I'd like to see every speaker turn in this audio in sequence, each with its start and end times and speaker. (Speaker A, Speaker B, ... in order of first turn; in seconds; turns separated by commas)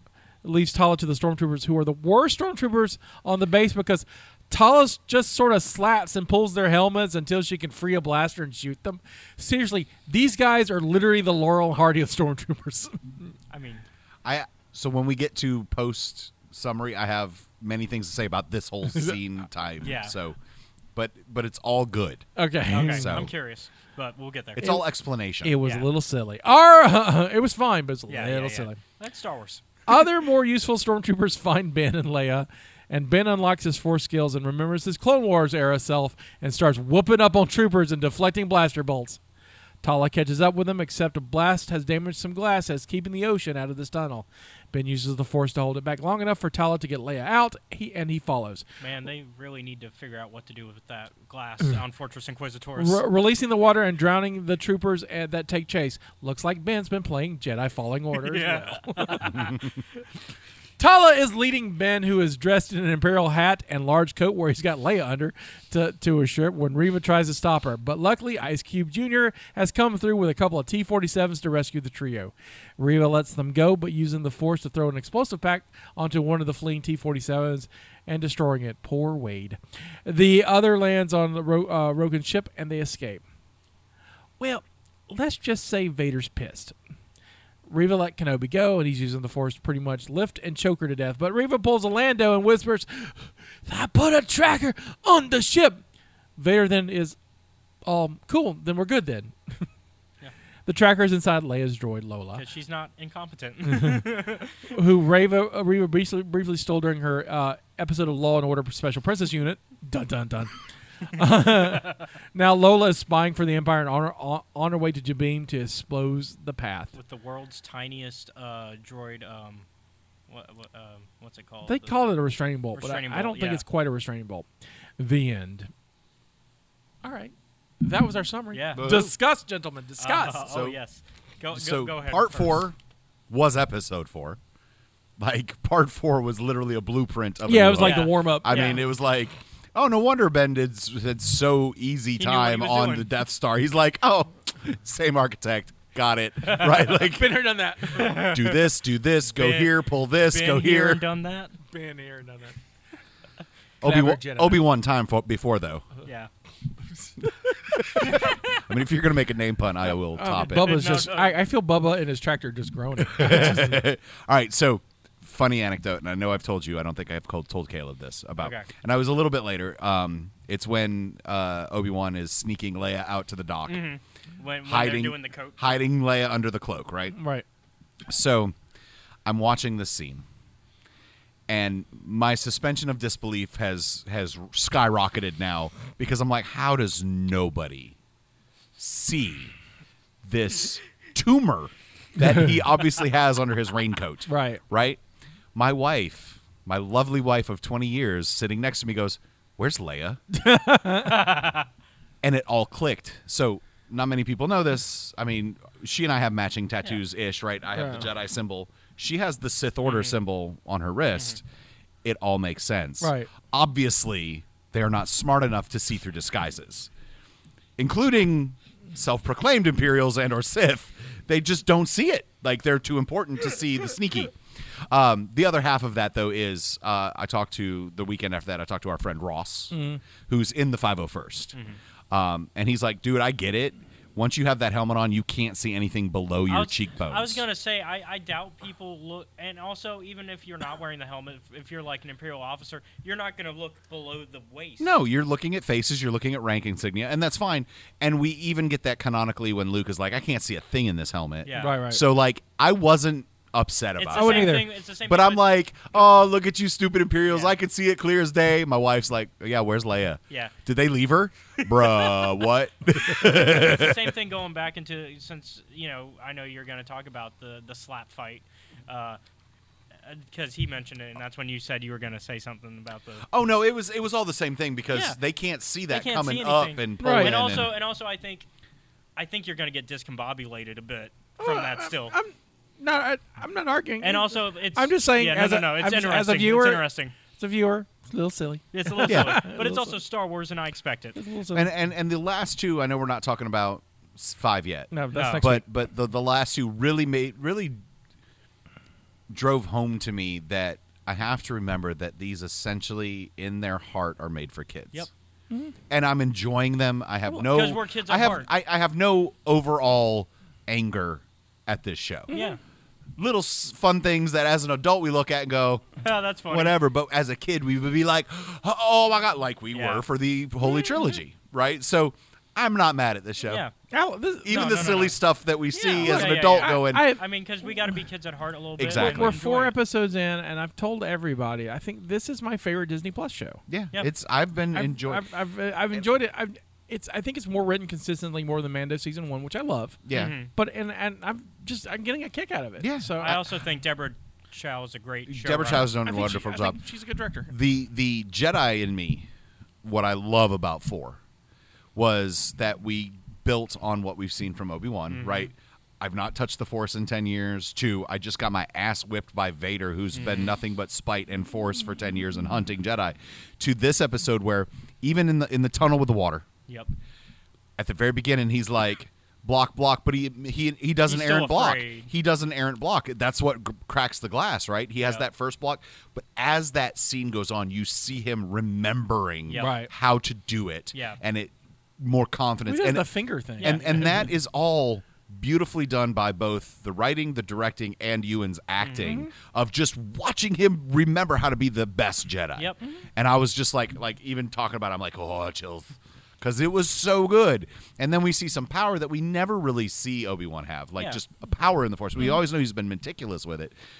Speaker A: 0.4-13.3, Speaker B: 13.5-13.8, Speaker C: 14.2-20.4, Speaker A: 18.9-19.2, Speaker B: 19.8-20.1, Speaker C: 20.9-22.2, Speaker A: 22.4-23.2, Speaker B: 22.7-24.7, Speaker C: 22.8-23.3, Speaker C: 24.5-25.6, Speaker A: 25.4-28.8, Speaker B: 25.6-25.9, Speaker B: 28.1-29.6, Speaker A: 29.9-39.2, Speaker A: 39.8-48.6, Speaker B: 48.8-53.0, Speaker A: 52.8-59.5, Speaker B: 58.1-59.6, Speaker A: 60.8-83.2, Speaker A: 84.4-86.7, Speaker A: 87.7-95.8, Speaker A: 96.4-97.2, Speaker A: 97.8-99.7, Speaker A: 100.7-102.4, Speaker B: 102.3-104.7, Speaker A: 103.7-104.0, Speaker A: 104.7-117.0, Speaker B: 116.9-119.7, Speaker B: 120.3-122.0, Speaker A: 121.6-124.5, Speaker B: 122.8-123.6, Speaker A: 125.0-125.7, Speaker A: 127.0-130.5, Speaker B: 128.5-128.9, Speaker C: 128.7-129.1, Speaker B: 130.0-132.7, Speaker C: 130.4-130.8, Speaker C: 131.5-132.8, Speaker C: 133.3-134.4, Speaker C: 135.2-147.4, Speaker A: 137.4-138.8, Speaker B: 137.8-138.8, Speaker B: 142.2-143.1, Speaker A: 146.6-148.3, Speaker B: 147.9-148.7, Speaker C: 148.0-151.0, Speaker B: 149.3-151.5, Speaker A: 151.7-152.6, Speaker C: 153.8-155.8, Speaker A: 153.8-154.7, Speaker C: 157.7-160.8, Speaker A: 160.1-163.9, Speaker B: 160.5-161.4, Speaker C: 163.1-173.8, Speaker B: 168.4-168.7, Speaker B: 173.7-175.7, Speaker C: 174.6-177.2, Speaker A: 177.1-177.4, Speaker C: 178.1-178.5, Speaker C: 179.2-180.2, Speaker C: 181.5-187.9, Speaker C: 188.8-189.5, Speaker C: 190.2-195.0, Speaker A: 194.3-194.6, Speaker C: 195.5-200.2, Speaker A: 200.3-201.3, Speaker B: 201.0-201.7, Speaker C: 202.2-211.4, Speaker A: 207.7-208.1, Speaker B: 209.8-210.2, Speaker C: 212.0-216.9, Speaker A: 213.0-213.3, Speaker C: 217.8-231.5, Speaker A: 229.7-230.0, Speaker C: 232.1-237.4, Speaker B: 236.5-244.9, Speaker C: 244.8-264.1, Speaker B: 251.4-251.8, Speaker A: 251.6-252.0, Speaker B: 254.0-255.5, Speaker A: 254.1-254.7, Speaker B: 257.3-257.5, Speaker B: 261.7-262.3, Speaker B: 263.1-269.2, Speaker B: 270.0-273.3, Speaker C: 273.3-277.7, Speaker B: 274.9-275.2, Speaker B: 275.9-278.4, Speaker A: 277.0-277.4, Speaker B: 279.1-282.1, Speaker A: 281.4-290.0, Speaker B: 284.0-287.1, Speaker B: 288.7-291.2, Speaker C: 289.0-289.4, Speaker A: 291.1-291.7, Speaker C: 291.5-297.8, Speaker A: 294.9-295.6, Speaker B: 295.1-295.5, Speaker C: 299.3-305.1, Speaker C: 305.9-312.4, Speaker B: 307.3-308.5, Speaker A: 312.3-312.6, Speaker B: 312.3-312.6, Speaker C: 313.2-316.0, Speaker B: 316.0-316.8, Speaker C: 316.5-323.6, Speaker B: 319.7-320.0, Speaker B: 323.4-323.7, Speaker A: 323.9-324.7, Speaker C: 324.4-327.1, Speaker B: 324.5-325.2, Speaker B: 325.7-329.8, Speaker A: 326.0-327.2, Speaker C: 328.8-329.4, Speaker A: 328.9-333.6, Speaker C: 333.7-335.3, Speaker A: 334.7-343.4, Speaker C: 340.0-340.3, Speaker B: 340.1-340.5, Speaker C: 342.8-343.1, Speaker B: 343.2-345.9, Speaker C: 345.3-346.8, Speaker A: 346.0-347.5, Speaker C: 347.5-349.3, Speaker C: 349.8-351.2, Speaker C: 351.9-366.4, Speaker B: 355.1-355.5, Speaker B: 360.1-360.6, Speaker C: 367.8-383.1, Speaker B: 371.1-372.1, Speaker B: 379.5-379.8, Speaker A: 379.6-379.9, Speaker B: 380.9-381.2, Speaker A: 382.6-384.3, Speaker B: 383.6-384.2, Speaker C: 383.6-403.7, Speaker B: 388.8-389.2, Speaker A: 389.0-389.3